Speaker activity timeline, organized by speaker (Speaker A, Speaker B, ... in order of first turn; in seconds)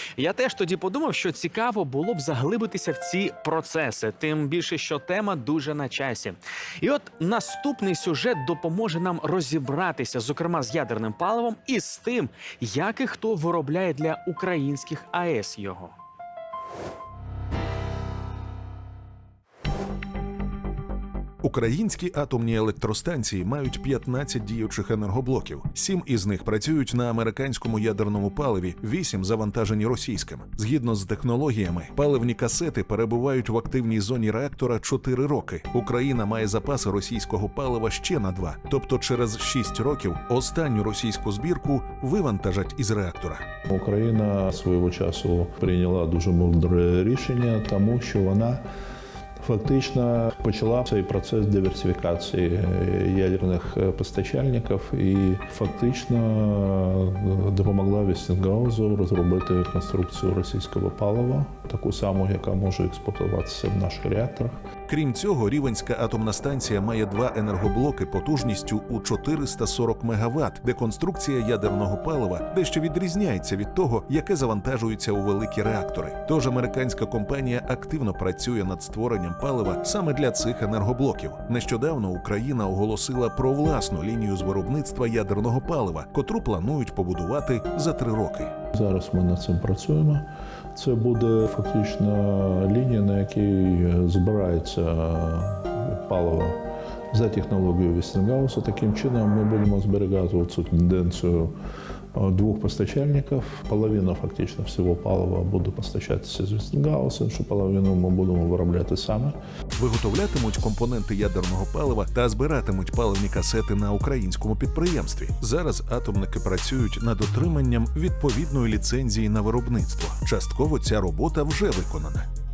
Speaker A: 0.1-15.9
Speaker B: 21.4-43.5, 64.9-88.5, 109.8-122.3
Speaker C: 43.7-48.6, 49.4-64.6, 88.7-96.6, 97.1-101.5, 102.2-109.3